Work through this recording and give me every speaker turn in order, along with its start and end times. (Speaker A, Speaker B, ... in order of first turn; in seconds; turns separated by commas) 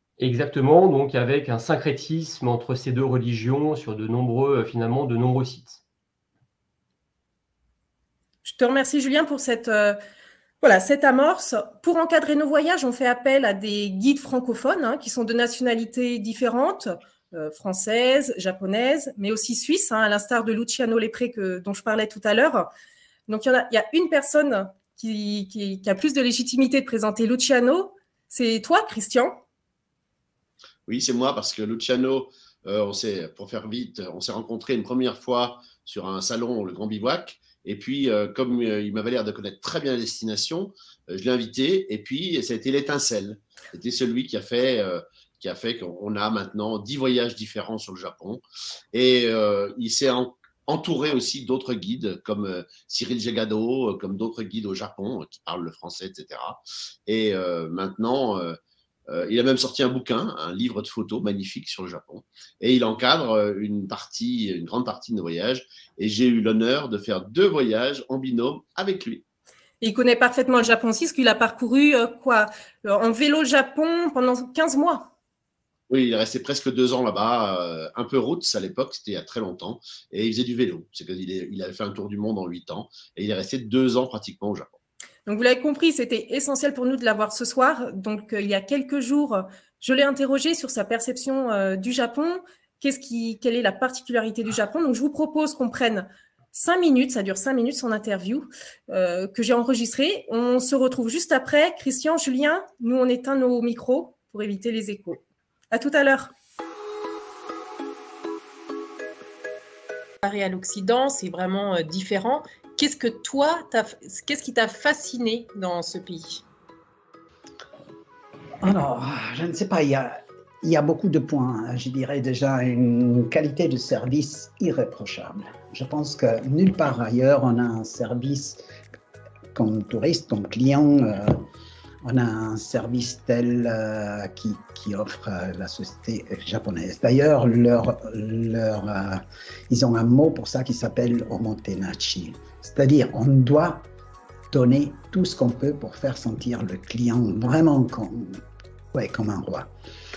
Speaker A: 0.2-5.8, Speaker B: 8.4-10.0, Speaker B: 10.6-22.7, Speaker B: 23.3-29.4, Speaker C: 30.9-58.6, Speaker C: 59.1-69.2, Speaker B: 69.8-75.1, Speaker C: 75.9-84.7, Speaker B: 85.2-106.3, Speaker B: 110.2-116.4, Speaker D: 118.6-128.6, Speaker D: 129.5-131.4, Speaker D: 132.0-143.9, Speaker D: 144.5-148.4, Speaker D: 148.9-149.7